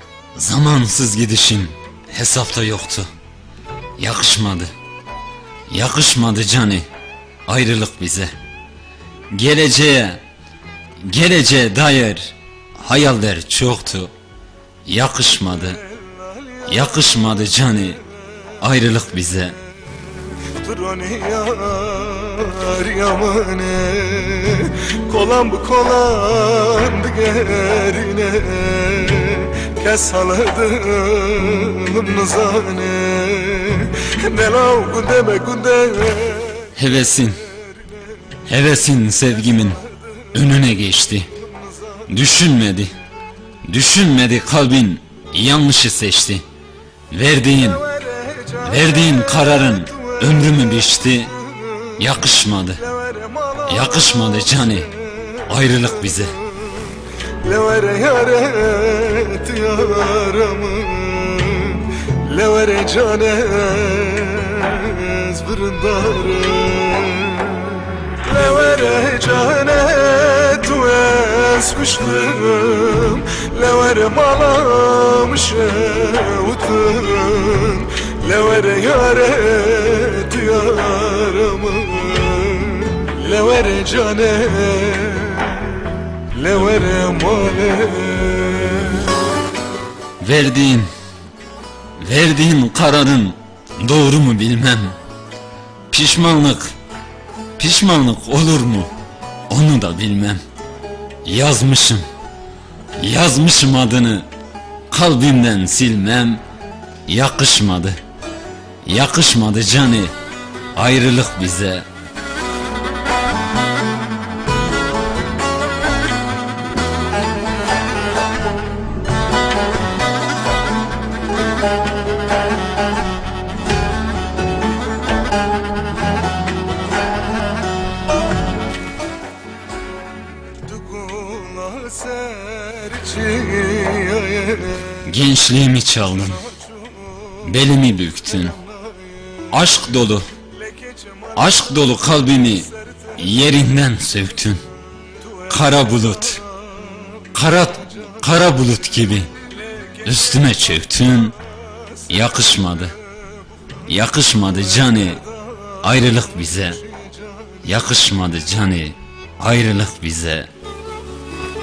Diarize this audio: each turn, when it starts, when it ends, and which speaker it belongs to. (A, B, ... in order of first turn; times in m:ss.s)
0:00.4-0:03.1 A
0:04.0-0:04.7 A
0:05.7-0:06.9 A
0:07.5-0:08.3 A
0:09.3-0:10.2 A
0:11.0-0:14.1 A
0:14.8-0:15.8 A
0:16.0-0:16.7 B
0:16.7-0:18.0 A
0:18.6-0:19.6 A
0:20.5-0:36.7 B
0:36.8-0:37.4 A
0:38.5-0:39.8 A
0:40.3-0:41.3 A
0:42.1-0:43.0 A
0:43.7-0:46.4 A
0:47.1-0:47.9 A
0:47.6-0:50.4 B
0:48.6-0:51.4 A
0:52.0-0:52.8 A
0:52.8-0:54.5 B
0:53.6-0:54.9 A
0:55.5-0:56.4 A
0:57.4-1:29.2 B
1:30.2-1:30.9 A
1:32.0-1:35.0 A
1:35.9-1:36.7 A
1:37.6-1:38.9 A
1:39.5-1:40.4 A
1:41.2-1:42.1 A
1:43.0-1:44.3 A
1:44.9-1:46.4 A
1:47.1-1:48.0 A
1:48.8-1:50.1 A
1:50.8-1:51.9 A
2:10.6-2:15.0 B
2:15.0-2:16.4 A
2:17.4-2:18.6 A
2:19.5-2:20.3 A
2:20.7-2:21.4 B
2:21.4-2:24.6 A
2:25.5-2:26.4 A
2:27.3-2:29.3 A
2:30.0-2:31.4 A
2:32.1-2:33.0 A
2:33.9-2:35.2 A
2:35.8-2:36.8 A
2:37.6-2:40.5 A